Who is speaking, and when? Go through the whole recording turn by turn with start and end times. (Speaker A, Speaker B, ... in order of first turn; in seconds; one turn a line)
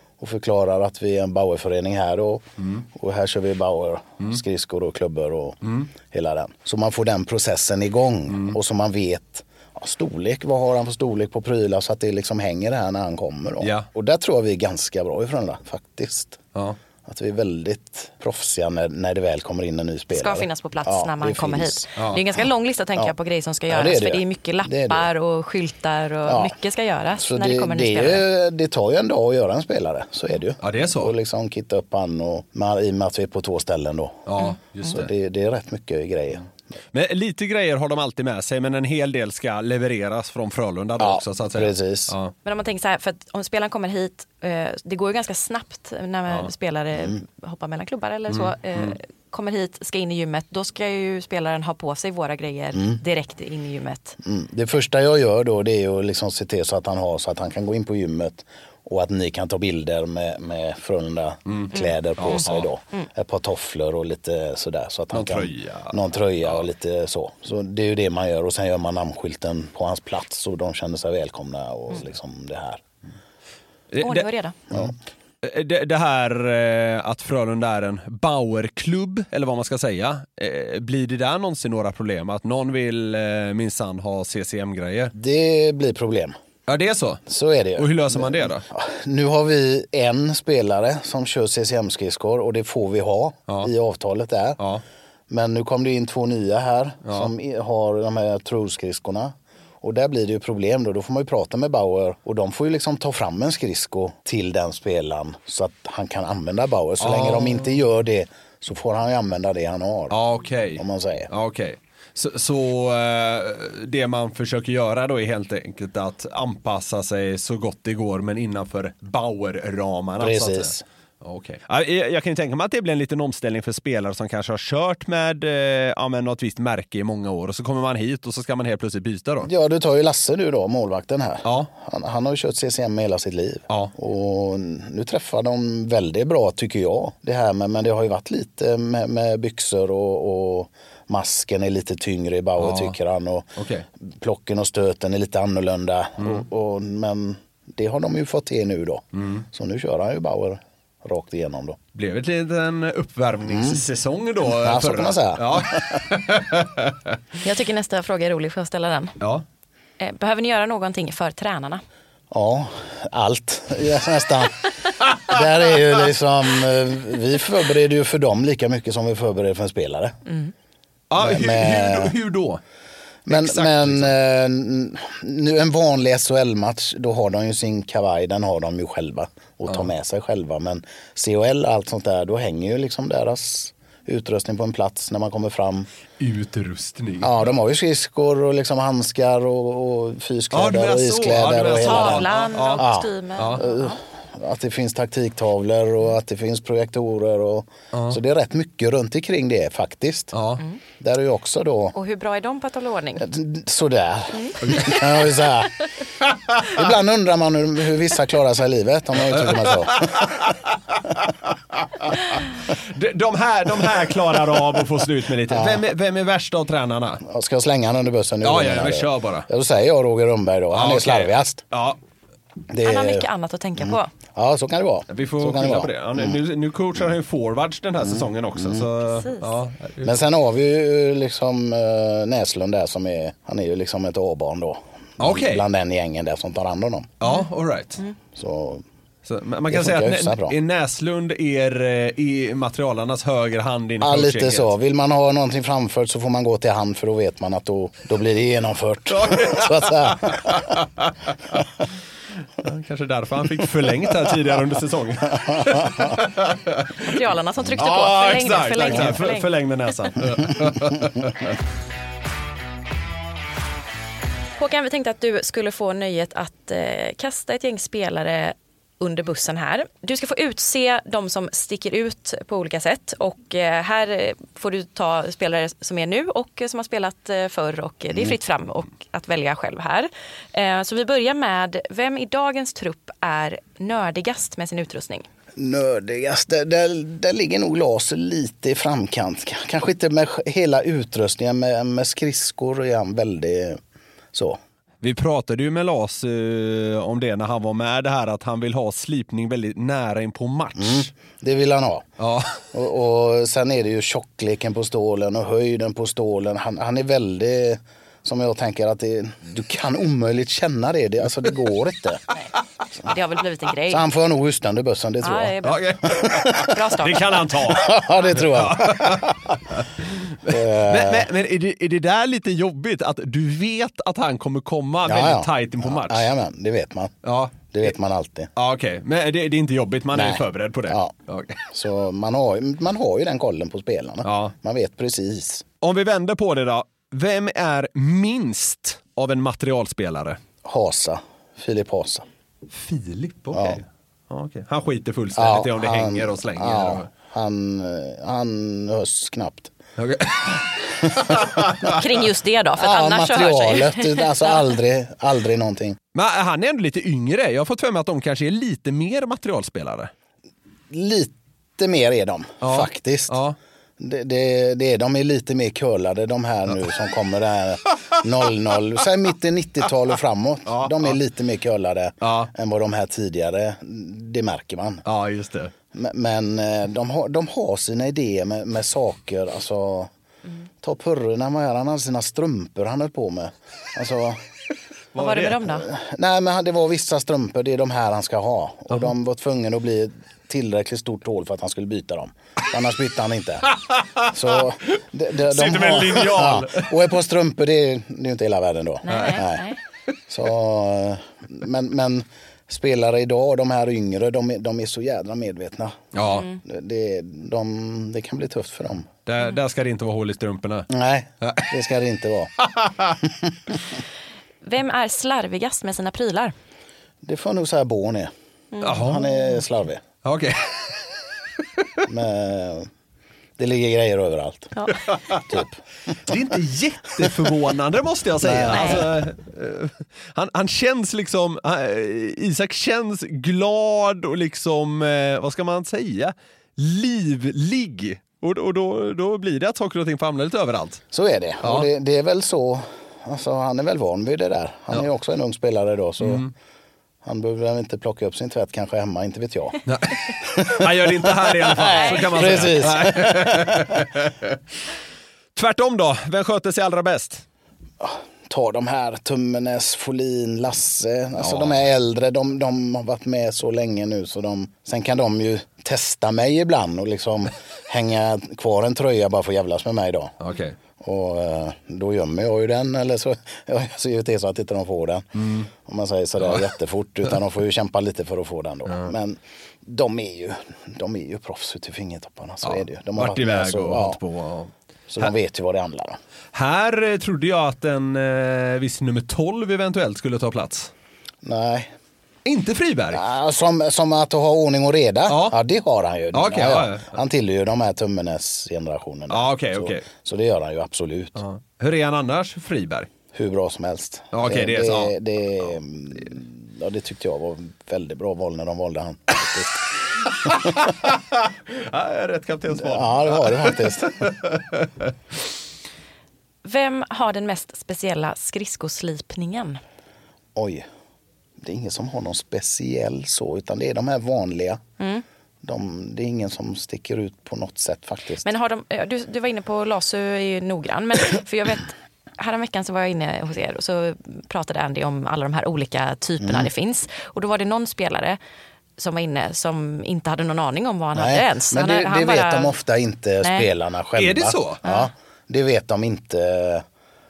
Speaker A: 0.2-16.4
Speaker B: 2.6-2.9
Speaker B: 5.6-5.9
Speaker B: 13.6-13.9
Speaker A: 17.1-21.9
Speaker C: 20.1-28.2
Speaker B: 22.0-22.2
Speaker A: 23.7-25.1
Speaker A: 26.3-26.5
Speaker A: 27.2-36.5
Speaker B: 30.6-31.1
Speaker B: 34.3-35.1
Speaker B: 36.9-42.3
Speaker A: 41.0-42.1
Speaker C: 42.5-54.2
Speaker B: 48.3-49.0
Speaker A: 54.2-72.8
Speaker B: 61.5-62.7
Speaker B: 65.1-66.7
Speaker B: 73.9-85.1
Speaker C: 74.0-74.5
Speaker A: 85.1-86.4
Speaker B: 86.7-87.2
Speaker A: 87.3-94.6
Speaker B: 87.8-88.7
Speaker A: 95.3-110.2
Speaker B: 97.1-97.3
Speaker B: 107.0-107.8
Speaker B: 110.1-129.5
Speaker A: 110.8-111.3
Speaker A: 120.2-120.8
Speaker A: 129.4-143.5
Speaker B: 131.4-131.7
Speaker B: 142.6-142.9
Speaker B: 143.6-143.8
Speaker A: 144.1-151.8
Speaker B: 149.2-149.4
Speaker B: 151.9-157.2
Speaker A: 153.5-153.8
Speaker A: 154.4-156.0
Speaker C: 157.4-159.2
Speaker C: 160.0-161.8
Speaker A: 162.3-164.7
Speaker A: 165.2-170.2
Speaker C: 170.3-170.5
Speaker B: 171.1-172.6
Speaker A: 171.2-172.2
Speaker A: 173.3-185.9
Speaker B: 173.3-174.1
Speaker B: 186.2-187.5
Speaker A: 187.2-200.4
Speaker B: 190.5-193.6
Speaker C: 191.8-194.0
Speaker B: 197.9-198.2
Speaker B: 200.3-200.6
Speaker A: 201.0-202.0
Speaker C: 201.9-203.2
Speaker A: 203.2-205.8
Speaker C: 204.3-204.9
Speaker B: 204.6-205.4
Speaker A: 206.7-210.3
Speaker B: 209.2-217.2
Speaker A: 215.5-215.8
Speaker A: 217.2-221.6
Speaker B: 218.4-219.5
Speaker B: 220.7-222.0
Speaker A: 222.7-226.3
Speaker C: 222.8-224.1
Speaker B: 225.1-230.1
Speaker A: 228.0-228.9
Speaker A: 230.0-237.1
Speaker B: 235.2-235.7
Speaker B: 237.2-238.0
Speaker A: 238.3-238.8
Speaker B: 239.3-244.7
Speaker A: 239.7-240.6
Speaker A: 244.0-250.7
Speaker B: 249.1-251.7
Speaker B: 252.6-257.2
Speaker A: 255.4-256.1
Speaker C: 257.0-259.5
Speaker B: 257.8-261.6
Speaker C: 264.6-285.2
Speaker A: 285.6-293.8
Speaker A: 294.3-294.6
Speaker B: 295.0-301.1
Speaker A: 300.8-302.1
Speaker B: 302.2-302.6
Speaker A: 302.7-312.2
Speaker C: 313.1-314.1
Speaker A: 313.9-316.8
Speaker C: 315.2-315.8
Speaker B: 315.6-326.3
Speaker C: 316.4-317.4
Speaker A: 317.6-319.6
Speaker A: 320.5-321.3
Speaker A: 325.1-327.1
Speaker B: 327.2-327.9
Speaker A: 327.7-328.5
Speaker B: 328.6-331.6
Speaker A: 330.1-331.1
Speaker A: 331.7-335.6
Speaker B: 334.2-334.5
Speaker B: 335.8-340.4
Speaker A: 340.6-342.3
Speaker B: 342.7-347.1
Speaker A: 343.5-343.8
Speaker A: 345.4-349.7
Speaker B: 350.0-352.0
Speaker A: 350.8-351.9
Speaker C: 351.9-354.6
Speaker A: 352.8-356.0
Speaker B: 356.1-360.1
Speaker A: 360.9-363.4
Speaker B: 362.6-363.6
Speaker A: 364.0-375.1
Speaker B: 370.7-371.2
Speaker B: 372.2-372.5
Speaker B: 375.1-375.7
Speaker A: 375.9-380.1
Speaker A: 380.8-384.4
Speaker B: 385.1-385.6
Speaker C: 385.2-385.9
Speaker A: 385.7-393.8
Speaker B: 393.8-394.4
Speaker A: 394.3-399.6
Speaker B: 395.0-396.9
Speaker C: 399.0-399.8
Speaker B: 399.1-399.4
Speaker A: 400.3-409.1
Speaker B: 406.1-406.5
Speaker C: 406.3-406.6
Speaker B: 409.3-410.9
Speaker A: 410.9-412.5
Speaker B: 411.4-411.7
Speaker B: 412.6-413.2
Speaker C: 414.6-416.5
Speaker A: 417.2-418.3
Speaker C: 418.7-419.5
Speaker B: 418.8-419.2
Speaker A: 419.0-420.0
Speaker B: 420.2-421.0
Speaker A: 422.1-422.9
Speaker A: 423.6-424.8
Speaker C: 424.8-425.0
Speaker B: 425.1-425.4
Speaker A: 425.5-425.8
Speaker B: 426.3-441.0
Speaker A: 427.2-427.4
Speaker A: 428.4-429.1
Speaker C: 428.7-429.1
Speaker A: 441.1-446.4
Speaker B: 441.6-441.9
Speaker B: 446.2-446.5
Speaker A: 447.2-449.9
Speaker B: 449.9-454.6
Speaker A: 450.4-454.1
Speaker C: 451.9-452.7
Speaker B: 455.6-457.4
Speaker A: 458.0-470.4
Speaker B: 461.4-461.9
Speaker B: 470.4-470.8
Speaker A: 471.0-484.2
Speaker B: 475.4-475.7
Speaker B: 482.6-485.3
Speaker A: 485.1-486.2
Speaker B: 486.5-490.9
Speaker A: 491.4-491.9
Speaker B: 492.5-493.2
Speaker A: 493.1-501.4
Speaker B: 495.3-495.6
Speaker B: 496.3-497.2
Speaker B: 499.3-500.1
Speaker B: 501.4-503.1
Speaker A: 503.3-509.9
Speaker B: 504.3-505.1
Speaker B: 510.3-514.9
Speaker A: 512.7-514.3
Speaker C: 516.6-519.8
Speaker A: 520.5-520.9
Speaker A: 521.6-524.8
Speaker C: 525.0-525.2
Speaker A: 525.6-528.5
Speaker C: 528.4-538.4
Speaker A: 536.4-536.7
Speaker C: 539.0-542.8
Speaker A: 541.1-546.9
Speaker C: 543.4-543.7
Speaker B: 544.2-544.8
Speaker C: 544.8-545.1